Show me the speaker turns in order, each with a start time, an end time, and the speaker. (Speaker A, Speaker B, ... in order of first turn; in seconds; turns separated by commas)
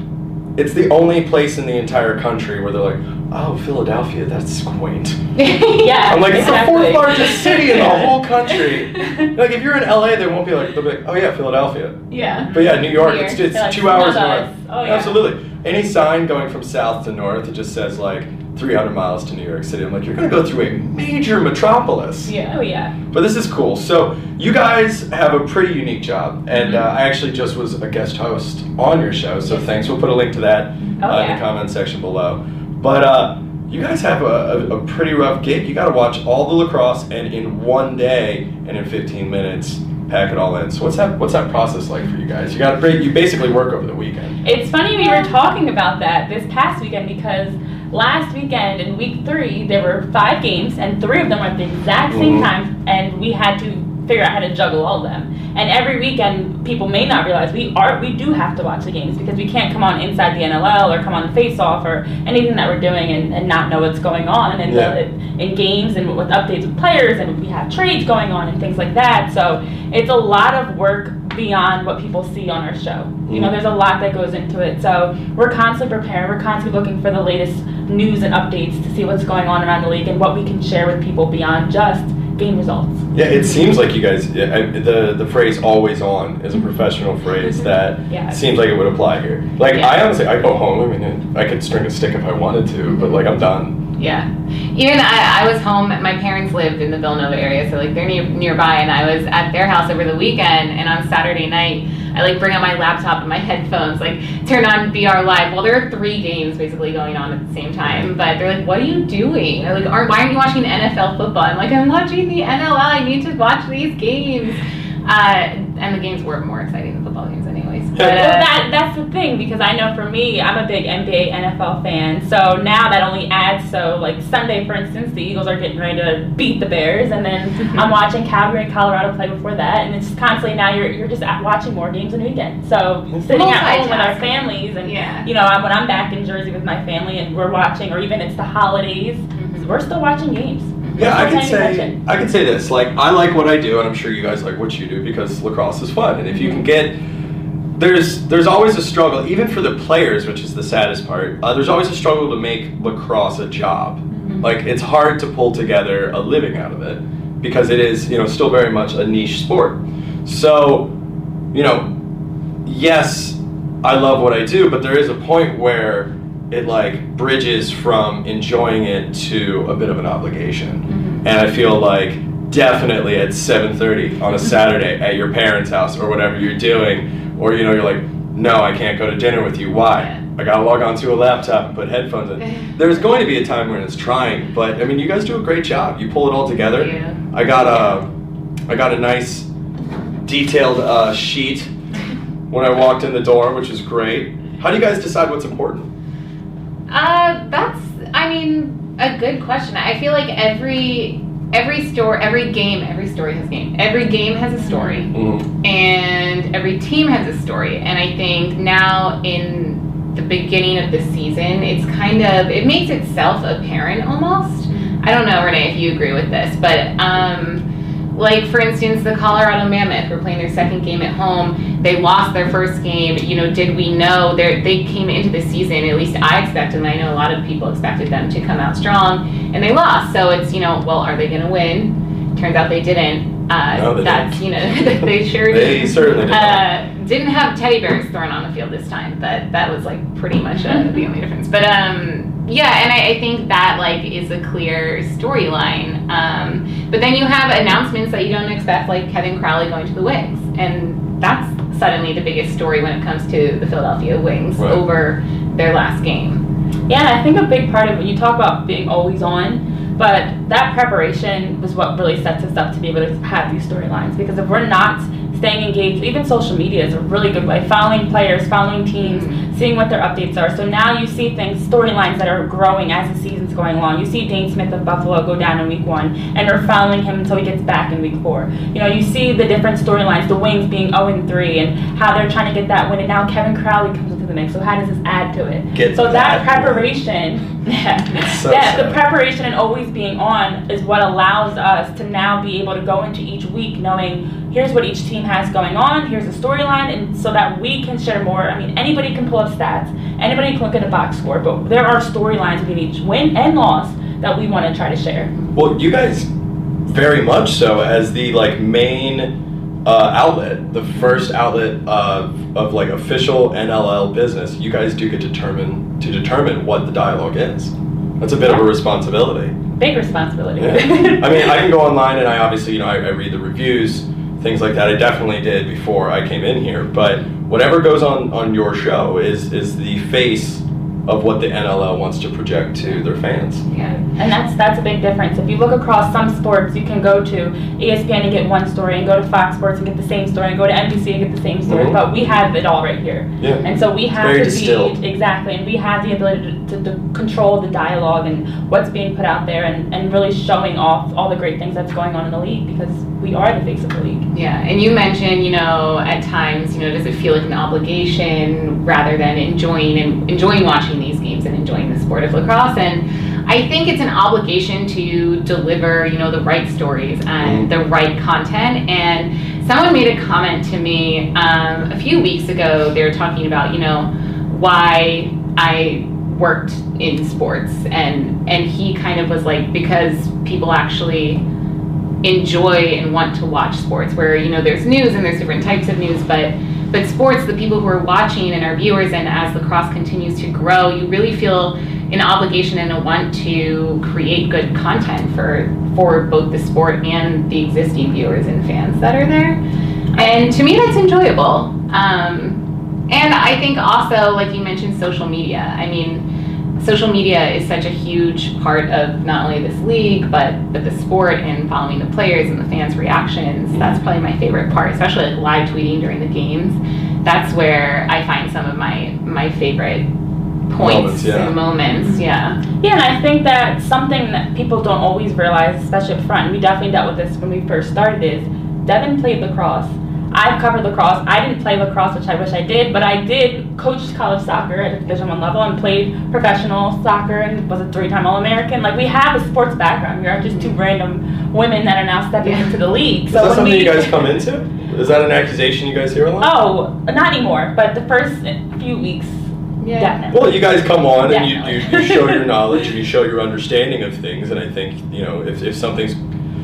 Speaker A: 0.6-5.2, Speaker B: 5.4-9.2, Speaker C: 5.7-8.1, Speaker A: 6.1-22.4, Speaker B: 12.1-13.4, Speaker C: 13.4-15.2, Speaker B: 22.2-22.6, Speaker C: 22.5-22.9, Speaker A: 23.1-44.4, Speaker B: 26.5-26.9, Speaker C: 31.0-31.4, Speaker C: 44.4-83.1, Speaker B: 45.0-45.3, Speaker A: 52.1-52.5, Speaker A: 64.7-64.9, Speaker A: 73.3-73.5, Speaker A: 83.1-93.9, Speaker C: 88.1-88.4, Speaker B: 92.9-93.2, Speaker B: 94.0-118.5, Speaker C: 118.0-142.0, Speaker B: 133.2-135.3, Speaker B: 139.3-139.7, Speaker B: 140.8-141.2, Speaker A: 141.0-147.0, Speaker B: 146.3-146.6, Speaker A: 147.8-160.9, Speaker B: 154.2-154.5, Speaker A: 161.5-161.9, Speaker A: 162.6-188.1, Speaker B: 170.9-171.2, Speaker B: 179.9-180.2, Speaker B: 186.7-187.2, Speaker A: 188.7-189.5, Speaker A: 190.2-191.7, Speaker A: 192.5-195.9, Speaker B: 196.9-256.5, Speaker C: 204.6-205.1, Speaker A: 205.1-205.5, Speaker A: 233.7-236.7, Speaker A: 254.6-254.8, Speaker C: 256.9-305.3, Speaker B: 269.0-269.5, Speaker A: 285.7-286.9, Speaker A: 288.1-289.0, Speaker A: 305.6-306.3, Speaker A: 306.9-319.6, Speaker C: 319.7-321.5, Speaker A: 320.6-333.6, Speaker B: 333.7-334.1, Speaker C: 334.1-354.3, Speaker A: 341.7-342.0, Speaker A: 343.4-343.6, Speaker A: 344.1-344.9, Speaker B: 354.3-381.4, Speaker A: 367.4-367.7, Speaker B: 382.2-399.6, Speaker C: 400.1-400.5, Speaker B: 400.1-406.2, Speaker B: 406.8-420.1, Speaker A: 413.7-414.0, Speaker B: 420.7-422.6, Speaker A: 420.8-421.6, Speaker C: 421.9-444.3, Speaker B: 442.4-442.8, Speaker A: 443.3-446.5, Speaker C: 446.4-450.6, Speaker B: 449.8-450.3, Speaker A: 450.3-456.2, Speaker C: 451.2-452.4